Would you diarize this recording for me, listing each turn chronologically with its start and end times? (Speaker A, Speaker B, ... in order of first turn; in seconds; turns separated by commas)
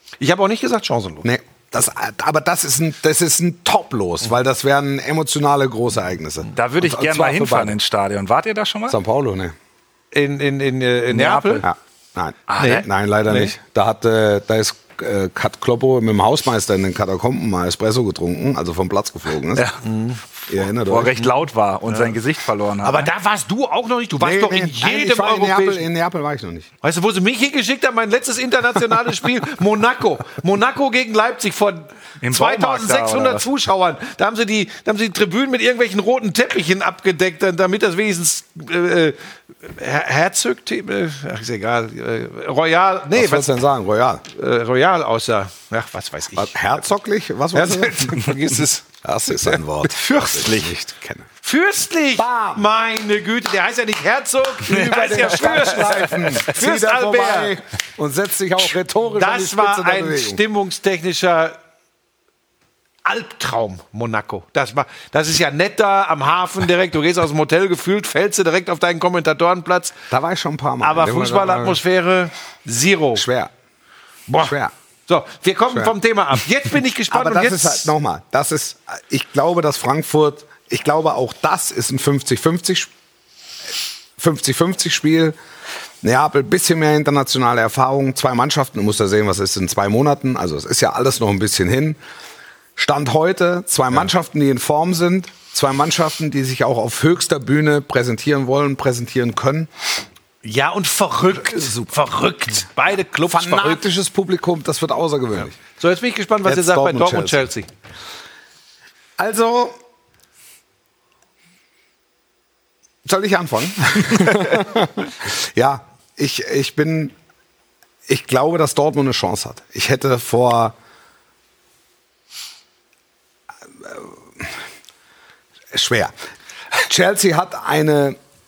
Speaker A: 0.2-1.3, Speaker B: 1.2-7.8, Speaker C: 6.5-9.0, Speaker B: 8.9-9.6, Speaker A: 10.1-11.7, Speaker C: 11.1-11.7, Speaker B: 11.6-19.7, Speaker C: 12.5-12.8, Speaker A: 12.6-13.5, Speaker A: 19.8-20.2, Speaker B: 20.5-21.2, Speaker C: 20.9-23.1, Speaker A: 21.9-22.1, Speaker A: 22.8-25.9, Speaker B: 24.2-26.7, Speaker A: 26.8-43.5, Speaker C: 32.2-33.4, Speaker B: 43.1-44.2, Speaker A: 44.3-46.6, Speaker B: 46.4-48.3, Speaker A: 47.5-48.9, Speaker B: 49.0-51.3, Speaker C: 49.9-50.7, Speaker A: 51.4-57.6, Speaker B: 52.2-52.7, Speaker B: 54.7-60.4, Speaker C: 55.8-56.3, Speaker A: 59.2-61.6, Speaker A: 63.0-70.0, Speaker B: 70.1-71.8, Speaker A: 70.8-73.3, Speaker B: 73.2-73.5, Speaker A: 74.3-74.5, Speaker B: 74.4-74.7, Speaker A: 75.1-77.9, Speaker B: 77.1-82.9, Speaker B: 84.2-85.4, Speaker B: 86.0-92.0, Speaker B: 92.8-99.7, Speaker A: 100.4-103.8, Speaker B: 101.3-102.0, Speaker B: 103.3-105.6, Speaker A: 105.7-107.7, Speaker B: 106.5-107.4, Speaker B: 109.2-109.8, Speaker B: 113.1-117.2, Speaker B: 118.1-120.8, Speaker B: 123.8-124.5, Speaker B: 125.7-126.1, Speaker B: 126.7-128.2